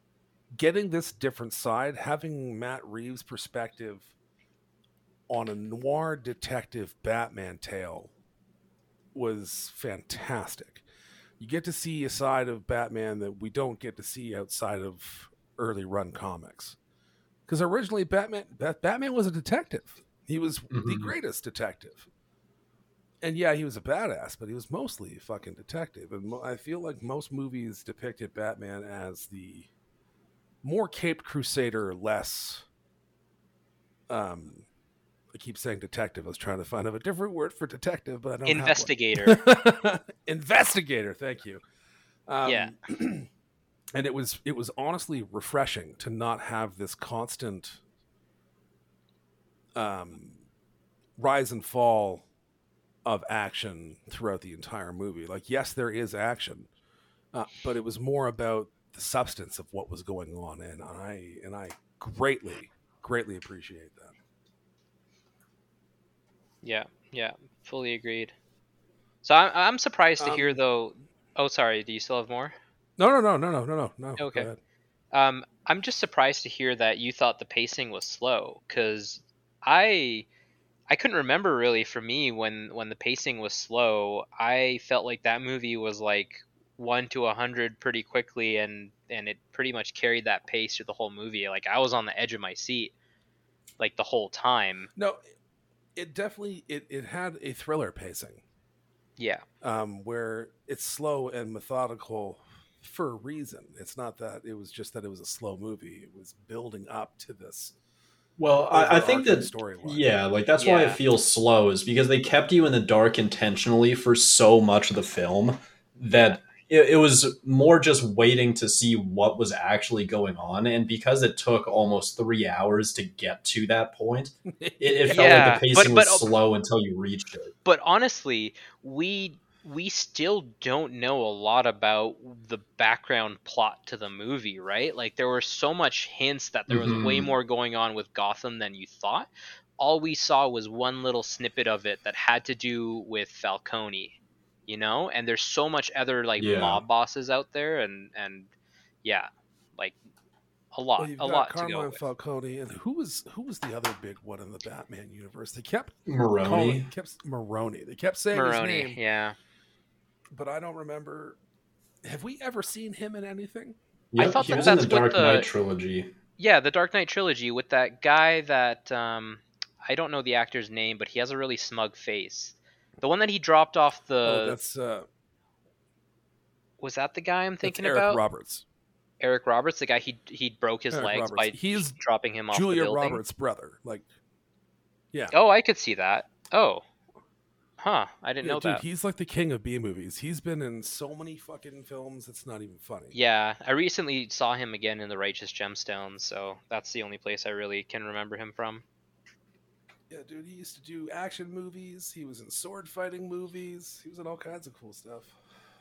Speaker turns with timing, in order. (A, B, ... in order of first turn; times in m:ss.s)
0:00.5-0:04.1 A
0:05.3-0:08.1 A
0:09.1-0:10.8 A
0:11.4-0:16.8 A
0:17.5-0:22.1 A
0:20.7-0:21.1 B
0:23.2-0:29.7 A
0:30.6-0:32.7 A
0:34.1-0:34.7 A
0:35.3-0:41.6 A
0:38.4-0:39.4 C
0:42.3-0:43.3 A
0:42.4-0:42.7 C
0:43.9-0:47.8 A
0:49.8-0:50.4 A
0:51.2-0:52.3 A
0:53.0-0:56.7 A
0:57.3-1:04.2 A
1:06.6-1:08.3 C
1:09.2-1:12.6 C
1:10.2-1:10.6 A
1:13.0-1:14.6 A
1:14.2-1:14.5 C
1:15.1-1:20.3 C
1:20.9-1:32.9 C
1:33.8-1:34.9 C
1:36.0-1:38.4 A
1:39.2-1:39.4 C
1:39.6-1:47.7 A
1:48.4-2:07.5 B
1:48.7-1:50.1 A
1:50.6-1:51.0 C
2:04.6-2:05.6 A
2:05.1-2:06.3 C
2:07.6-2:28.5 C
2:16.7-2:17.3 B
2:26.4-2:26.8 B
2:29.0-2:30.0 C
2:30.7-2:32.0 C
2:31.0-2:39.0 A
2:36.1-2:36.9 B
2:38.3-2:39.4 C
2:40.3-2:41.4 A
2:42.0-2:44.9 A
2:44.1-2:46.1 B
2:44.2-2:45.5 C
2:46.4-2:54.6 C
2:54.2-2:55.1 A
2:56.8-2:58.2 C
2:57.6-2:58.6 A
2:59.2-3:03.2 C
3:00.9-3:02.0 A
3:02.5-3:04.1 A
3:05.3-3:06.8 C
3:07.8-3:08.8 C
3:08.4-3:13.2 A
3:13.1-3:18.8 C
3:20.1-3:25.4 A